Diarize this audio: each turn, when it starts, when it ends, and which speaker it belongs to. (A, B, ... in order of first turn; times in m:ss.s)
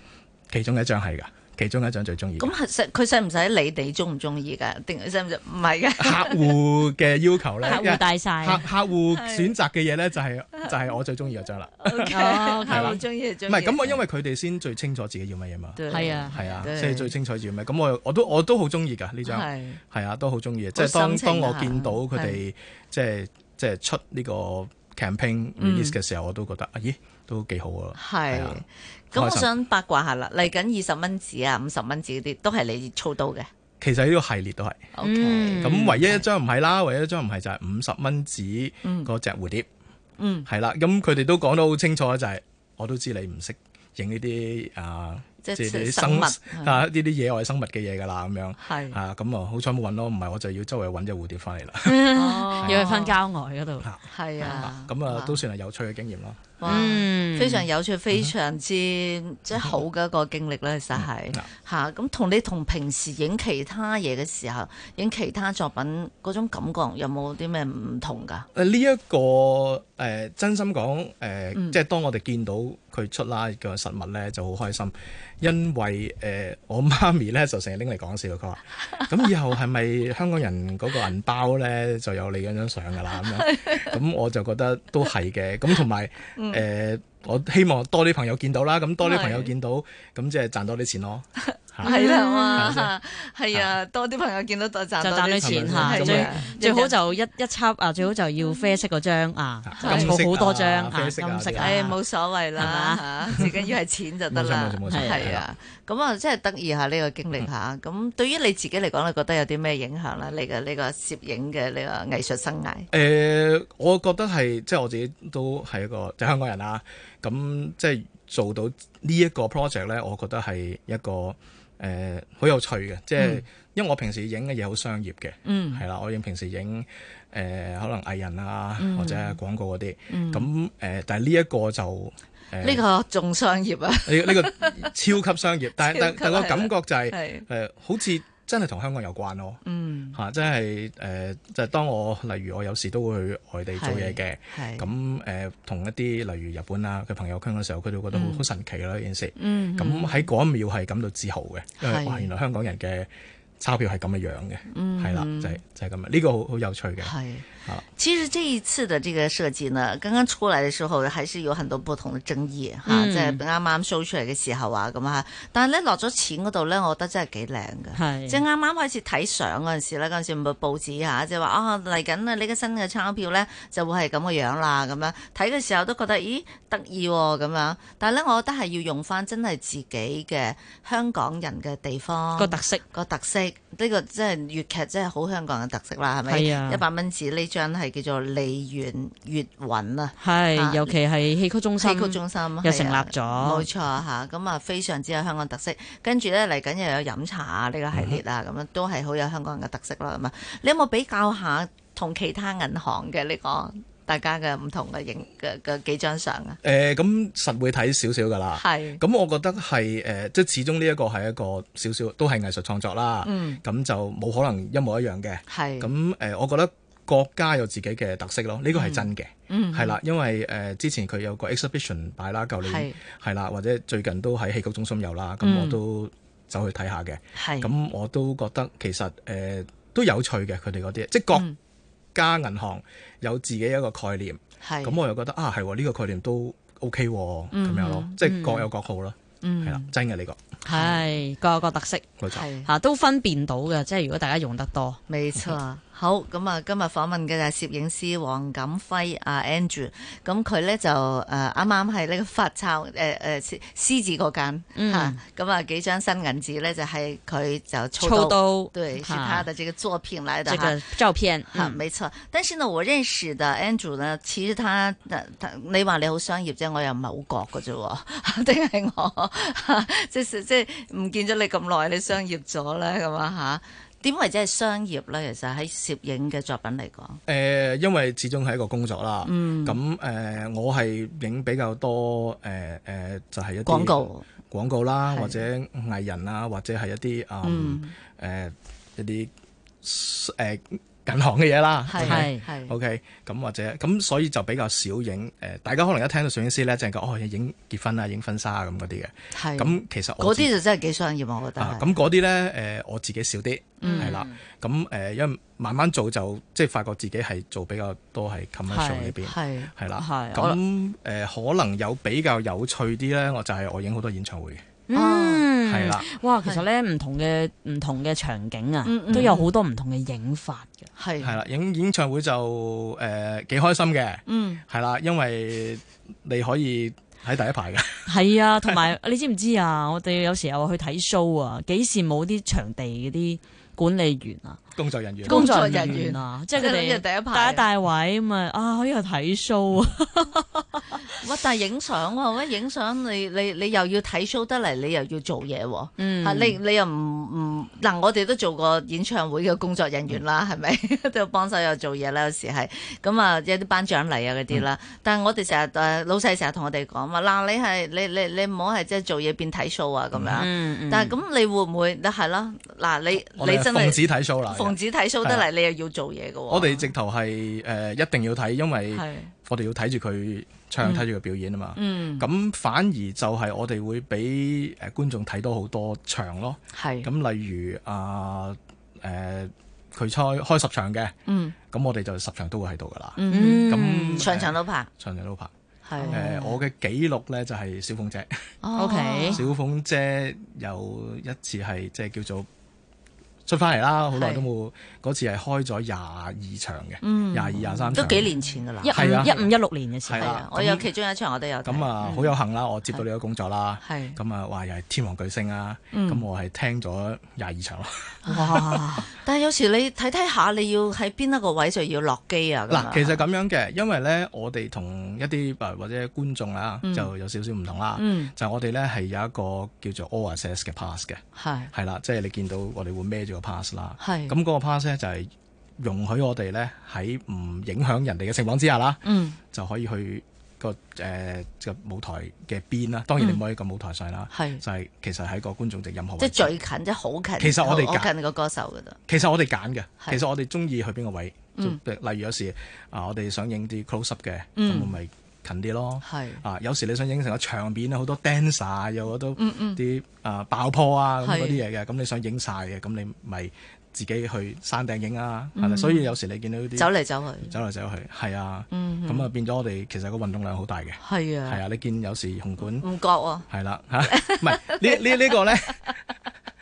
0:00.5-0:02.5 A
0:02.4-0:06.6 B
0:06.0-0:12.1 A
0:07.6-0:08.6 C
0:08.9-0:09.6 B
0:10.5-0:11.0 B
0:11.8-0:14.0 B
0:12.1-0:13.0 C
0:12.6-0:28.6 A
0:15.8-0:17.1 B
0:15.9-0:16.6 C
0:19.2-0:19.8 B
0:20.7-0:22.4 B
0:25.6-0:26.0 B
0:27.9-0:33.5 B
0:29.1-0:29.5 A
0:33.8-0:34.9 A
0:34.9-0:36.2 B
0:35.0-0:36.0 C
0:35.5-0:39.7 A
0:38.8-0:39.1 B
0:40.2-0:40.5 B
0:40.5-0:52.0 A
0:45.4-0:46.8 B
0:48.6-0:49.0 B
0:51.8-0:53.9 C
0:52.1-0:53.2 B
0:52.6-0:52.8 A
0:53.8-0:56.6 A
0:54.1-0:55.4 B
0:56.6-1:08.5 B
0:56.6-0:57.7 C
1:01.0-1:01.5 A
1:08.5-1:31.9 A
1:23.2-1:24.0 B
1:26.3-1:26.6 B
1:29.0-1:29.5 B
1:31.4-1:37.0 B
1:31.8-1:32.8 C
1:32.5-1:32.9 A
1:35.0-1:42.0 C
1:35.4-1:36.4 A
1:38.4-1:38.7 B
1:39.6-1:41.9 A
1:39.8-1:40.2 B
1:41.6-1:52.9 B
1:42.6-1:43.4 C
1:44.3-1:45.4 A
1:44.8-1:45.2 C
1:52.9-2:12.8 A
2:03.2-2:03.4 B
2:05.4-2:05.8 B
2:08.8-2:09.4 B
2:10.1-2:10.5 B
2:12.6-2:14.9 B
2:14.1-2:19.6 A
2:15.8-2:17.4 B
2:19.6-2:20.2 B
2:20.1-2:33.1 A
2:23.7-2:24.9 B
2:28.1-2:28.4 B
2:29.4-2:30.3 B
2:31.8-2:32.3 B
2:33.6-2:37.1 A
2:34.7-2:35.6 B
2:37.0-3:11.0 B
2:42.8-2:43.4 C
2:47.9-2:48.4 C
3:02.4-3:02.8 C
3:06.2-3:06.8 C
3:10.2-3:13.7 C
3:11.8-3:26.6 B
3:17.9-3:18.2 A
3:26.6-3:51.5 A
3:28.6-3:29.0 B
3:33.2-3:33.6 B
3:35.5-3:35.9 B
3:38.7-3:40.0 B
3:42.6-3:43.0 B
3:45.4-3:45.8 B
3:47.3-3:47.7 B
3:51.3-3:51.6 B
3:52.1-4:00.4 A
3:54.6-3:55.0 B
3:57.5-3:58.1 B
3:58.2-3:58.6 C
3:59.4-3:59.9 B
4:00.6-4:01.0 B
4:00.7-4:02.0 C
4:02.2-4:02.5 A
4:02.3-4:02.7 B
4:02.6-4:05.0 C
4:05.1-4:20.8 B
4:14.8-4:15.2 C
4:18.0-4:19.5 C
4:20.5-4:21.8 C
4:21.5-4:37.2 B
4:37.3-4:49.3 A
4:39.2-4:39.8 B
4:43.6-4:44.2 B
4:45.1-4:45.4 B
4:47.4-4:47.9 B
4:49.8-5:00.5 A
4:51.9-4:52.7 B
4:52.0-4:52.4 C
4:59.3-5:02.0 B
5:01.6-5:14.6 A
5:03.8-5:04.1 B
5:03.8-5:04.4 C
5:08.7-5:09.2 C
5:09.2-5:09.7 B
5:10.0-5:10.6 C
5:14.9-5:20.8 C
5:14.9-5:15.4 B
5:15.6-5:16.1 A
5:18.8-5:19.5 B
5:21.0-5:21.4 B
5:21.2-5:28.9 A
5:24.2-5:24.6 B
5:28.1-5:34.6 C
5:34.8-5:35.5 A
5:35.2-5:41.0 C
5:35.2-5:37.6 B
5:41.1-6:06.9 B
5:46.0-5:46.6 C
6:00.1-6:00.4 A
6:00.3-6:01.1 C
6:03.4-6:05.5 A
6:06.5-6:21.1 A
6:08.9-6:09.3 B
6:11.8-6:12.2 B
6:16.7-6:17.1 B
6:21.2-6:21.6 B
6:21.7-6:25.5 A
6:23.2-6:24.9 B
6:23.3-6:24.3 C
6:25.8-6:26.6 B
6:26.0-6:26.3 C
6:26.1-6:28.4 A
6:28.6-6:29.4 B
6:28.8-6:29.4 C
6:29.3-6:32.5 A
6:33.4-6:38.3 A
6:34.1-6:34.5 B
6:37.0-6:39.4 B
6:38.8-6:40.4 C
6:38.9-6:39.5 A
6:40.0-6:40.9 A
6:40.2-6:42.3 B
6:41.6-6:49.0 A
6:43.8-6:44.2 B
6:45.9-6:46.2 B
6:48.2-6:53.2 B
6:48.3-6:49.1 C
6:52.7-7:01.2 A
6:56.8-6:57.1 B
6:58.0-6:58.3 B
7:01.3-7:01.7 B
7:01.7-7:16.5 A
7:04.0-7:04.4 B
7:09.0-7:09.4 B
7:14.3-7:14.6 B
7:16.2-7:19.0 B
7:17.4-7:18.1 A
7:19.1-7:42.9 A
7:24.6-7:25.0 B
7:26.0-7:26.4 B
7:29.4-7:29.8 B
7:31.2-7:31.6 B
7:35.5-7:36.1 B
7:36.7-7:37.5 B
7:38.7-7:39.3 B
7:41.0-7:41.6 B
7:42.7-7:43.5 B
7:43.5-7:45.9 A
7:44.0-7:45.3 B